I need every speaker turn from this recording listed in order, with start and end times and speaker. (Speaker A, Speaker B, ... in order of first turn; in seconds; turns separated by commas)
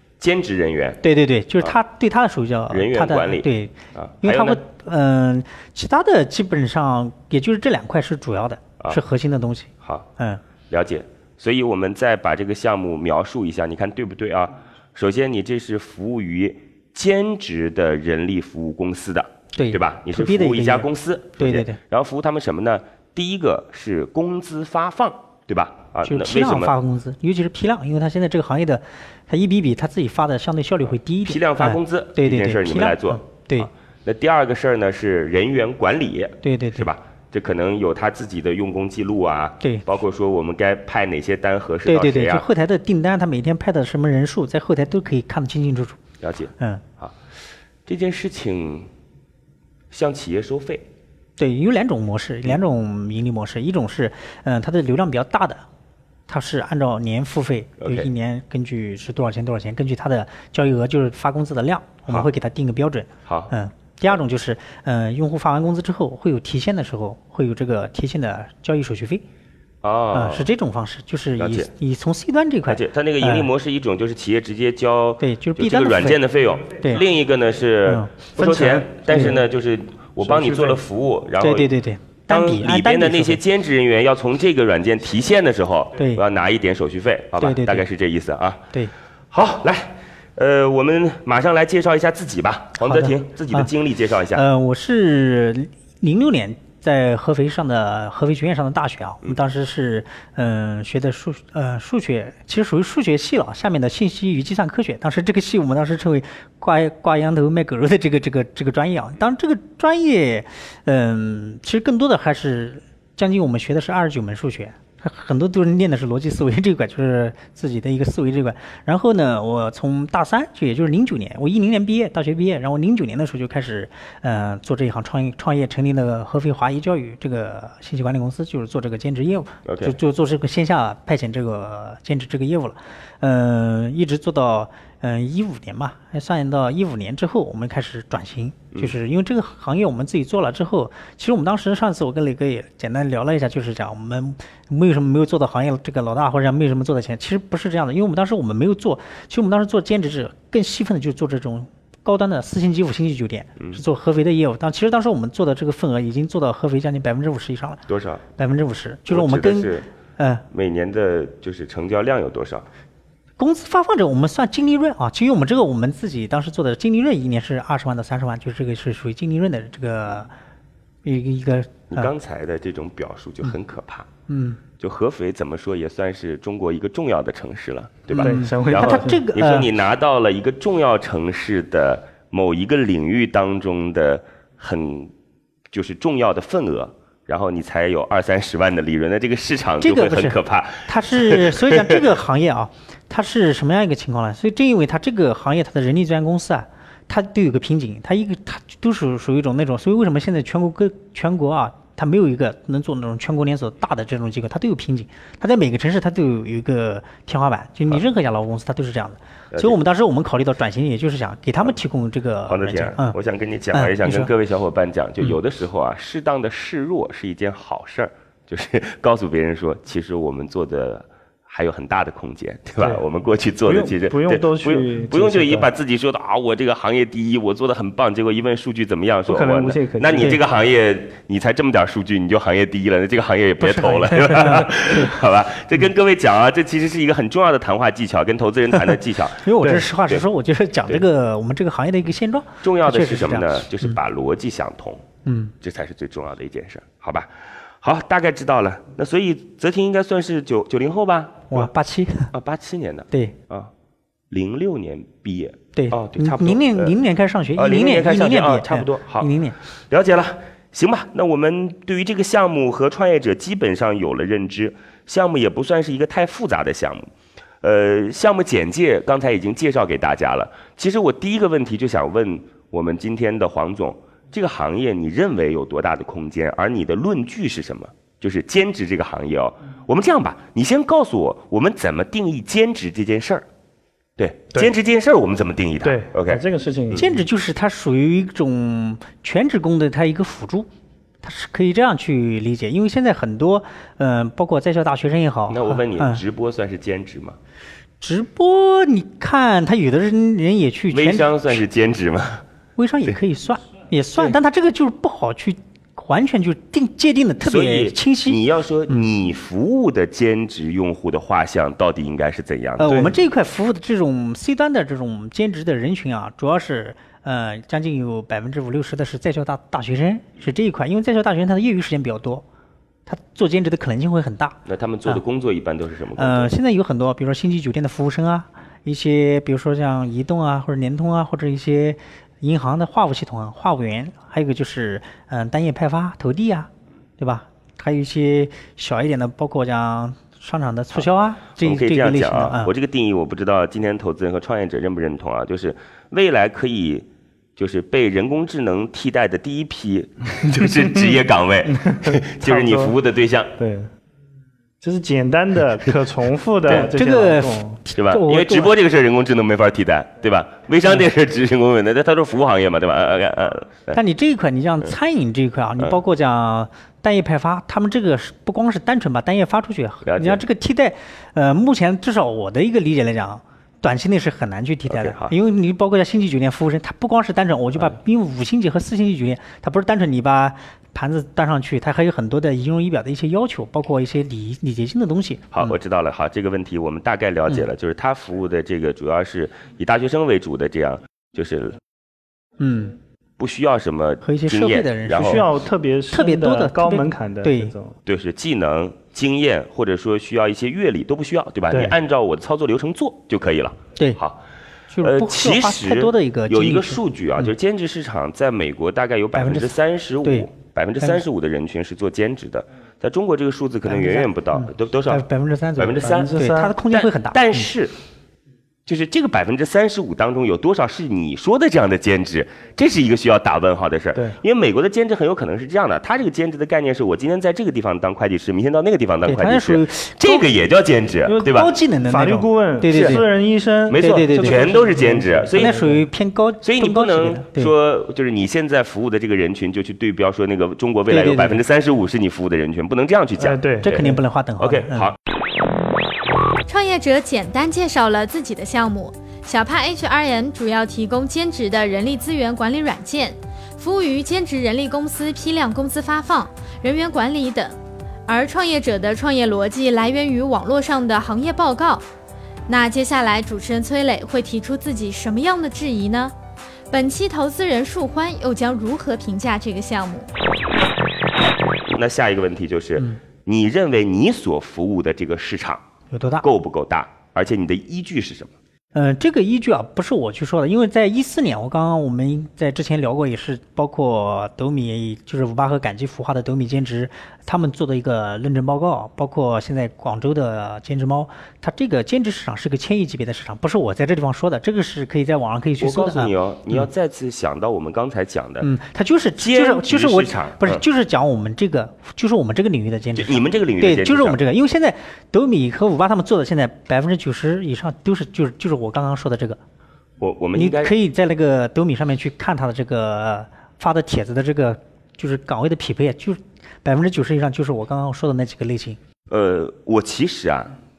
Speaker A: 0.2-1.0, Speaker B: 1.0-10.4, Speaker A: 2.7-4.6, Speaker A: 9.8-10.1, Speaker A: 10.7-26.7, Speaker B: 19.5-21.8, Speaker B: 26.0-33.7, Speaker A: 31.2-42.5, Speaker B: 36.4-36.9, Speaker B: 41.9-46.0, Speaker A: 46.2-47.2, Speaker A: 47.9-48.9, Speaker A: 49.9-50.9, Speaker B: 51.4-55.6, Speaker B: 56.3-69.2, Speaker A: 57.8-58.1, Speaker A: 63.2-63.5, Speaker A: 69.8-70.5, Speaker B: 70.1-73.5, Speaker A: 71.4-71.7, Speaker A: 72.7-81.7, Speaker B: 75.2-76.2, Speaker B: 77.8-78.1, Speaker C: 78.4-79.4, Speaker B: 79.1-79.4, Speaker C: 80.2-80.8, Speaker B: 81.4-83.4, Speaker A: 82.3-88.7, Speaker B: 87.4-87.8, Speaker A: 89.3-94.4, Speaker B: 92.8-93.7, Speaker B: 94.3-157.8, Speaker A: 129.6-129.9, Speaker A: 157.9-158.2, Speaker B: 158.3-160.4, Speaker A: 159.1-159.9, Speaker A: 160.5-162.7, Speaker B: 163.4-170.3, Speaker B: 171.0-172.1, Speaker A: 171.9-174.1, Speaker B: 174.3-174.6, Speaker A: 174.8-185.1, Speaker C: 178.1-179.1, Speaker B: 178.1-179.7, Speaker A: 185.7-192.0, Speaker B: 189.8-213.2, Speaker A: 209.5-209.8, Speaker A: 212.4-239.5, Speaker B: 213.7-214.3, Speaker C: 223.7-225.7, Speaker C: 229.3-230.4, Speaker B: 233.6-235.1, Speaker B: 239.4-244.0, Speaker A: 242.6-245.0, Speaker B: 245.2-245.5, Speaker A: 245.6-251.7, Speaker B: 251.5-252.3, Speaker A: 252.3-253.7, Speaker B: 253.1-253.3, Speaker A: 254.3-256.9, Speaker B: 255.7-259.6, Speaker A: 257.5-259.3, Speaker A: 259.9-267.1, Speaker A: 267.6-283.4, Speaker A: 284.2-287.0, Speaker C: 285.8-287.1, Speaker B: 286.9-290.7, Speaker B: 291.2-296.2, Speaker A: 295.5-297.4, Speaker B: 298.0-301.6, Speaker A: 300.9-302.4, Speaker B: 302.8-309.0, Speaker A: 307.4-313.0, Speaker B: 312.8-322.4, Speaker C: 312.9-313.1, Speaker B: 323.1-325.2, Speaker A: 324.6-326.5, Speaker B: 326.2-342.7, Speaker A: 341.6-353.5, Speaker C: 350.5-352.9, Speaker C: 353.6-353.9, Speaker C: 354.8-357.8, Speaker A: 356.6-356.9, Speaker B: 356.7-358.7, Speaker A: 357.9-364.0, Speaker B: 363.9-385.7, Speaker A: 370.0-370.4, Speaker A: 374.9-375.3, Speaker A: 385.5-391.8, Speaker B: 392.6-392.9, Speaker A: 393.4-395.4, Speaker B: 394.2-395.5, Speaker C: 395.1-397.9, Speaker B: 396.1-397.7, Speaker A: 398.1-404.4, Speaker C: 401.7-401.9, Speaker B: 404.9-407.5, Speaker A: 405.0-415.2, Speaker B: 409.3-410.5, Speaker B: 413.9-417.7, Speaker A: 415.8-416.3, Speaker C: 416.0-416.8, Speaker A: 416.9-417.9, Speaker A: 418.9-431.7, Speaker B: 429.2-430.5, Speaker C: 431.2-436.0, Speaker B: 431.4-433.3, Speaker A: 432.9-433.2, Speaker A: 433.9-435.8, Speaker B: 433.9-434.8, Speaker B: 435.5-437.7, Speaker A: 436.6-445.2, Speaker B: 441.1-441.6, Speaker C: 443.4-444.1, Speaker B: 443.8-445.1, Speaker D: 446.6-457.7, Speaker D: 458.3-462.0, Speaker D: 462.7-466.3, Speaker D: 466.9-470.3, Speaker A: 471.9-475.8, Speaker B: 476.1-476.4, Speaker A: 476.4-478.5, Speaker B: 478.9-496.3, Speaker A: 495.8-498.7, Speaker B: 498.6-509.6, Speaker A: 499.4-500.8, Speaker A: 503.1-504.4, Speaker A: 510.2-510.9, Speaker B: 510.5-519.0, Speaker A: 519.3-520.7